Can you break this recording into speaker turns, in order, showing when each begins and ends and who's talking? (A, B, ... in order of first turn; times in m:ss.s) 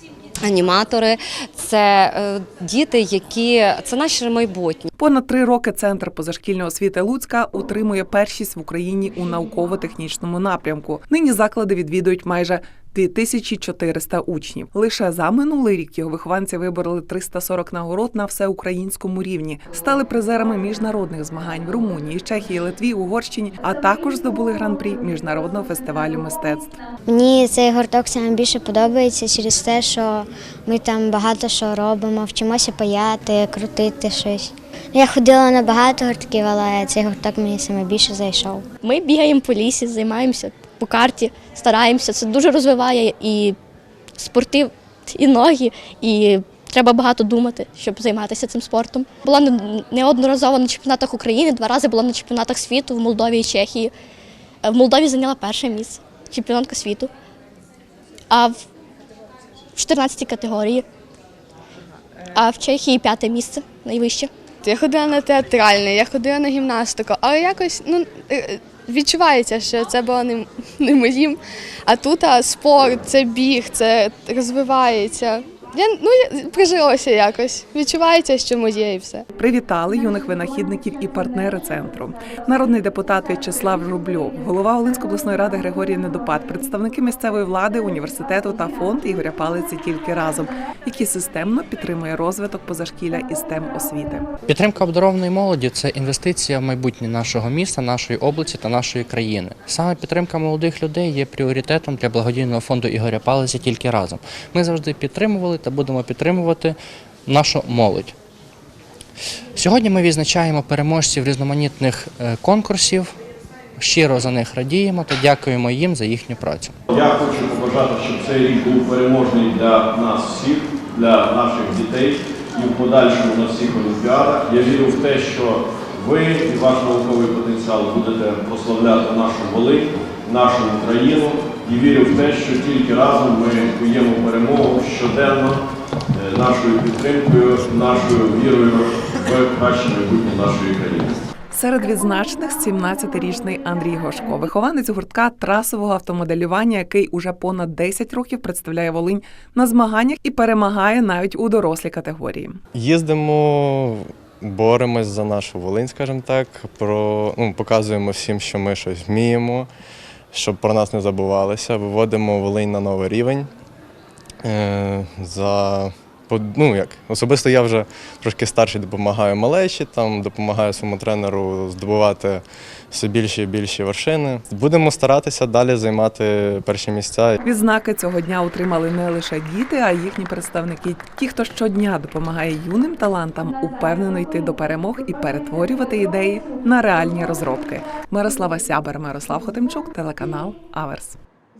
0:00.4-0:04.9 A
0:05.0-0:26.7 B
0:27.1-0:38.6 C
0:38.8-0:43.6 D
0:44.2-0:53.9 D
0:54.6-0:57.1 D
0:58.3-0:58.6 D
0:59.8-1:00.8 D
1:02.3-1:04.3 D
1:04.6-1:19.2 E
1:19.4-1:34.2 B
1:34.5-1:48.2 F
1:49.5-1:53.1 F
1:53.8-1:56.7 F
1:56.9-2:15.6 G
2:16.1-2:21.2 G
2:21.5-2:32.6 B
2:32.7-2:39.7 H
2:40.3-2:43.5 H
2:44.4-2:57.4 H
2:57.4-3:11.2 B